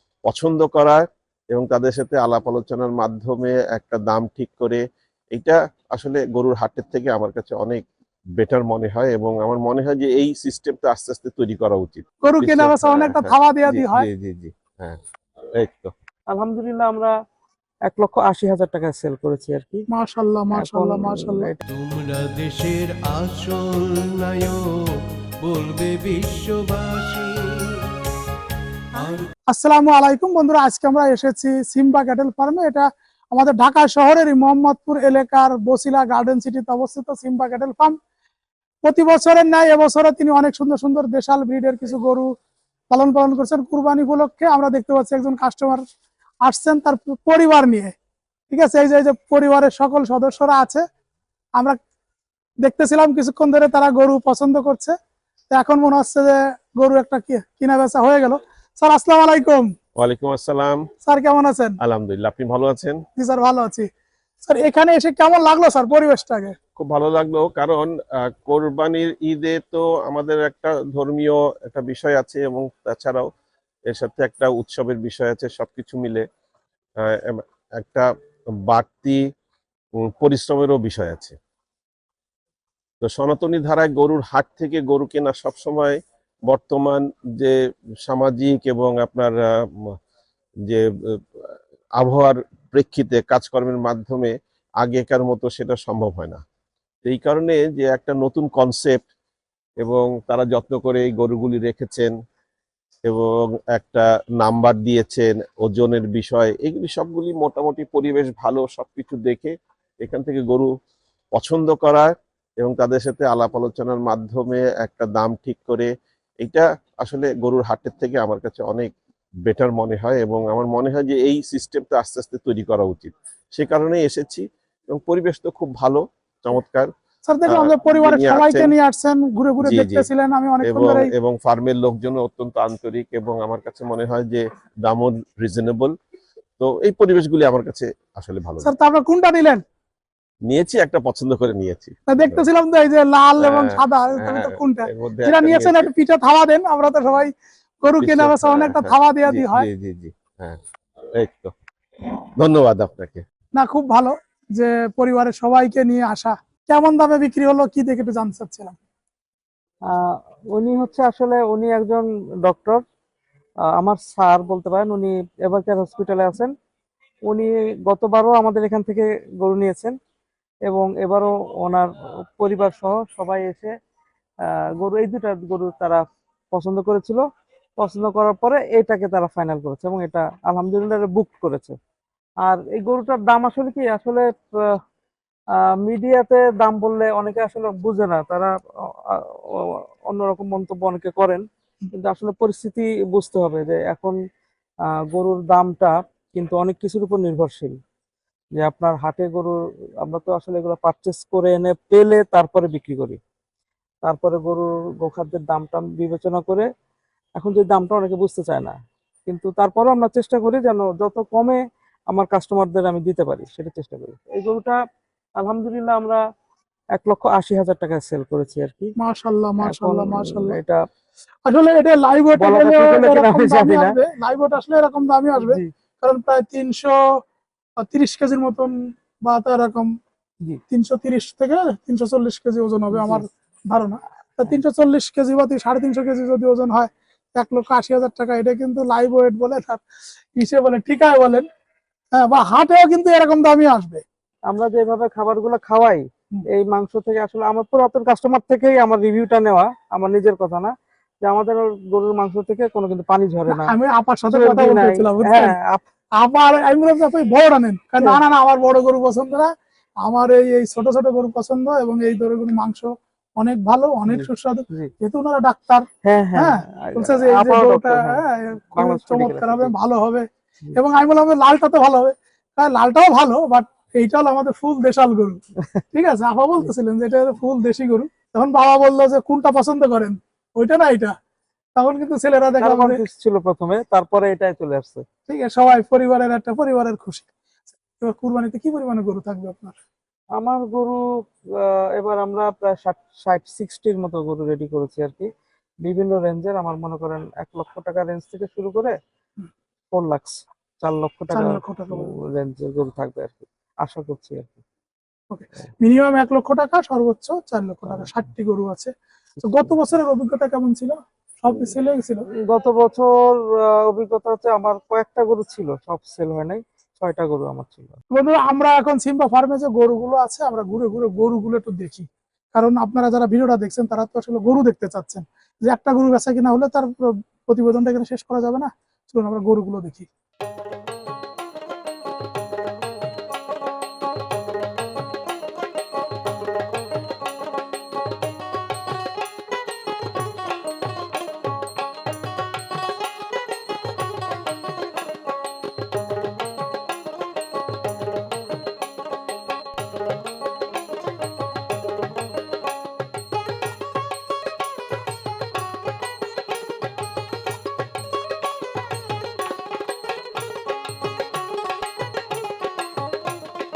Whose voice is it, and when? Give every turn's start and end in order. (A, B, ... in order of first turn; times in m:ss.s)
0:00.3-0:07.8 A
0:08.4-0:15.0 A
0:12.2-0:14.1 B
0:15.6-0:15.9 A
0:16.3-0:17.1 C
0:17.9-0:19.8 C
0:19.9-0:21.5 B
0:20.5-0:21.6 C
0:21.7-0:28.0 D
0:28.9-0:29.3 D
0:29.5-0:38.0 B
0:38.8-0:42.3 B
0:42.9-0:45.8 B
0:46.4-0:47.9 B
0:48.5-0:50.8 B
0:52.6-0:55.0 B
0:55.5-0:59.7 B
1:00.0-1:00.9 A
1:01.0-1:01.8 B
1:01.8-1:03.1 A
1:03.2-1:03.9 B
1:04.4-1:06.6 B
1:06.8-1:13.3 A
1:13.9-1:16.2 A
1:17.0-1:18.1 A
1:18.7-1:19.2 A
1:20.0-1:21.4 A
1:23.0-1:30.0 A
1:30.7-1:36.4 A
1:37.0-1:39.0 A
1:39.8-1:42.1 A
1:43.1-1:50.7 A
1:51.3-1:55.9 A
1:56.4-1:58.9 A
1:59.5-2:06.9 A
2:07.3-2:11.1 B
2:07.5-2:08.8 A
2:09.6-2:10.1 A
2:10.6-2:16.0 A
2:16.6-2:18.7 A
2:18.6-2:19.6 B
2:20.5-2:22.4 A
2:22.1-2:29.7 B
2:23.4-2:25.9 A
2:28.0-2:30.6 A
2:31.2-2:31.5 A
2:32.0-2:33.2 A
2:33.6-2:38.8 B
2:40.5-2:42.8 C
2:43.8-2:46.5 C
2:47.3-2:50.0 C
2:50.7-2:53.7 C
2:54.8-2:56.0 C
2:56.5-2:57.2 C
2:57.8-3:01.8 C
3:02.4-3:04.2 C
3:05.8-3:08.5 C
3:09.1-3:11.4 C
3:12.0-3:14.2 C
3:15.1-3:17.8 C
3:18.6-3:23.2 C
3:24.0-3:26.7 C
3:27.4-3:31.6 C
3:32.1-3:34.8 C
3:35.4-3:36.2 C
3:37.0-3:38.9 C
3:39.0-3:40.6 B
3:39.6-3:40.8 C
3:41.5-3:47.0 B
3:42.4-3:44.0 C
3:45.4-3:45.7 C
3:47.8-3:48.7 B
3:49.2-3:49.9 B
3:50.7-3:59.8 B
3:52.9-3:53.2 C
4:00.4-4:01.5 B
4:02.1-4:04.0 B
4:04.5-4:10.7 C
4:11.2-4:13.7 C
4:13.5-4:15.6 B
4:14.3-4:15.8 C
4:16.2-4:19.5 B
4:20.0-4:35.4 B
4:24.1-4:24.9 C
4:26.0-4:28.2 C
4:28.7-4:29.8 C
4:35.9-4:41.1 B
4:41.8-4:43.0 B
4:42.6-4:45.0 C
4:45.3-4:47.3 B
4:48.0-4:49.8 B
4:50.4-4:51.0 C
4:51.6-4:55.3 C
4:55.8-4:59.0 C
4:59.9-5:04.6 C
5:01.3-5:02.1 B
5:05.3-5:08.9 B
5:09.4-5:12.2 B
5:12.5-5:18.0 C
5:18.1-5:30.1 B